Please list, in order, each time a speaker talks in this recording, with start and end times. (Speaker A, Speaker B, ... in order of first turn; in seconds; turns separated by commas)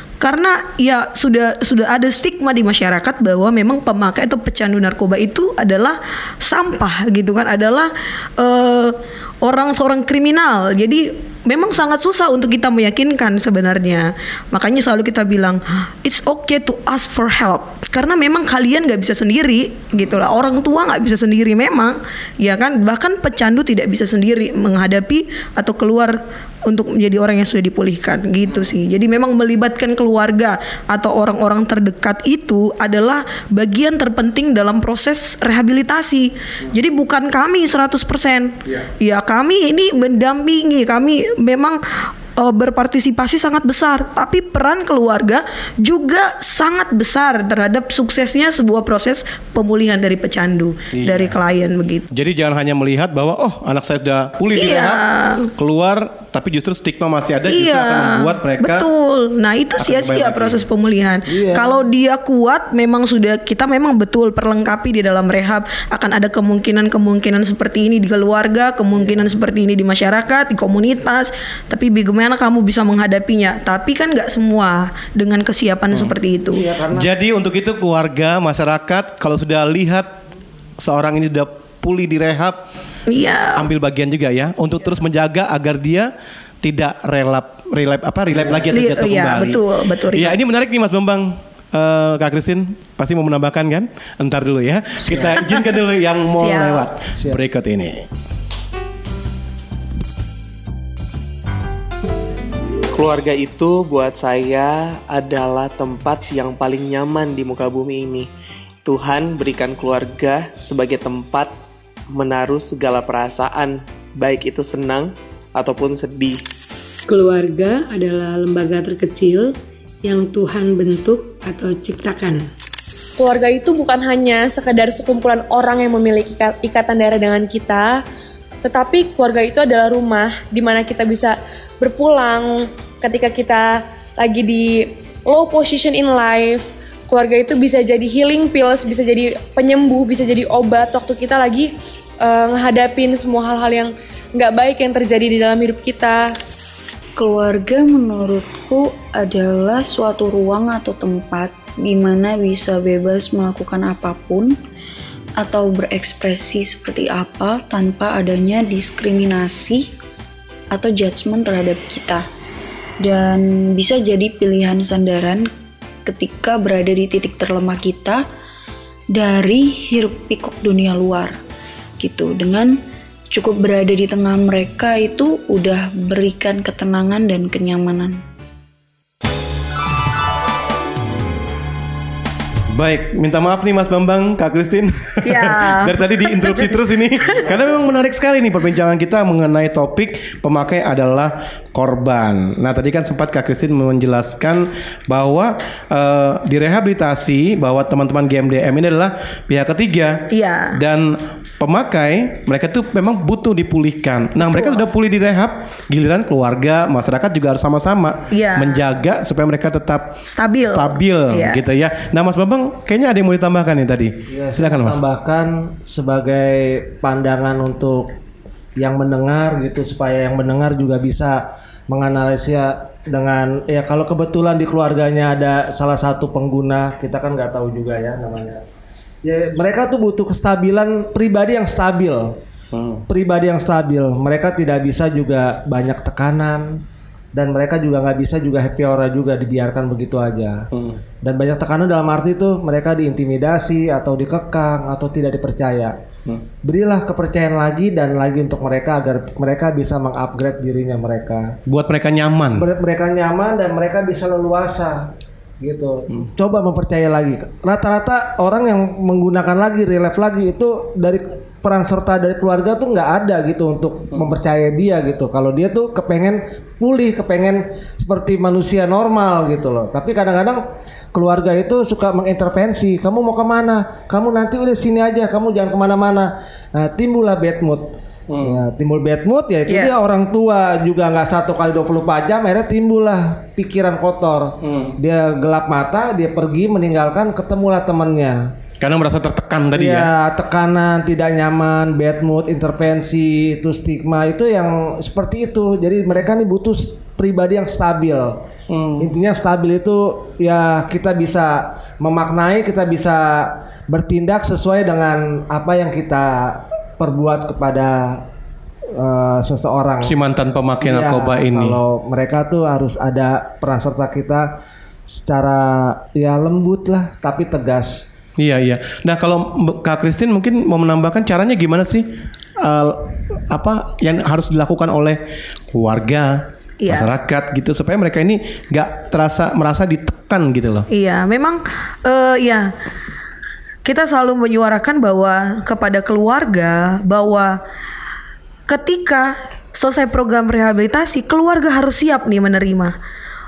Speaker A: 0.2-52.1, Speaker B: 50.9-51.4, Speaker B: 52.1-55.0, Speaker A: 54.5-55.5, Speaker B: 55.6-58.9, Speaker A: 57.5-76.7, Speaker B: 59.8-60.6, Speaker C: 61.3-61.8, Speaker C: 69.0-69.3, Speaker C: 76.5-77.1, Speaker B: 76.9-80.1, Speaker B: 80.8-82.6, Speaker A: 83.1-83.7, Speaker B: 83.6-86.1, Speaker B: 86.6-89.6, Speaker C: 88.3-88.7, Speaker A: 88.7-90.4, Speaker B: 90.1-98.0, Speaker C: 95.0-95.4, Speaker A: 96.4-96.8, Speaker C: 97.2-97.4, Speaker D: 102.9-108.3, Speaker D: 108.8-111.5, Speaker D: 112.1-116.4, Speaker E: 117.1-119.5, Speaker E: 120.0-122.4, Speaker F: 123.2-128.0, Speaker F: 128.6-141.7, Speaker F: 142.2-146.3, Speaker G: 147.2-154.5, Speaker G: 155.4-159.9, Speaker G: 160.7-162.3, Speaker G: 163.0-165.5, Speaker G: 166.1-168.2, Speaker G: 169.1-171.4, Speaker G: 172.0-172.8, Speaker G: 173.3-178.2, Speaker B: 182.7-215.0, Speaker A: 185.2-186.8, Speaker A: 200.3-200.8, Speaker A: 204.4-204.8, Speaker A: 208.3-208.8, Speaker A: 210.3-211.6, Speaker C: 214.3-218.1, Speaker C: 218.8-228.6, Speaker C: 229.2-232.4, Speaker B: 232.7-233.0, Speaker C: 233.1-236.8, Speaker C: 237.3-240.7, Speaker B: 240.7-241.0, Speaker C: 241.2-246.0, Speaker C: 246.6-251.6, Speaker B: 251.7-252.7, Speaker C: 252.6-255.1, Speaker C: 255.6-270.6, Speaker C: 271.1-277.9, Speaker B: 278.3-278.6, Speaker C: 278.4-288.4, Speaker A: 279.7-279.9, Speaker B: 284.6-285.0, Speaker B: 288.8-290.1, Speaker C: 289.7-298.4, Speaker B: 298.7-299.1, Speaker C: 299.0-308.2, Speaker C: 308.9-310.1, Speaker B: 310.0-311.8, Speaker C: 310.8-314.5, Speaker C: 315.1-318.1, Speaker B: 318.4-322.1, Speaker B: 322.6-325.2, Speaker B: 325.7-330.9, Speaker A: 326.8-327.1, Speaker A: 330.9-332.7, Speaker A: 333.9-337.6, Speaker A: 338.7-342.9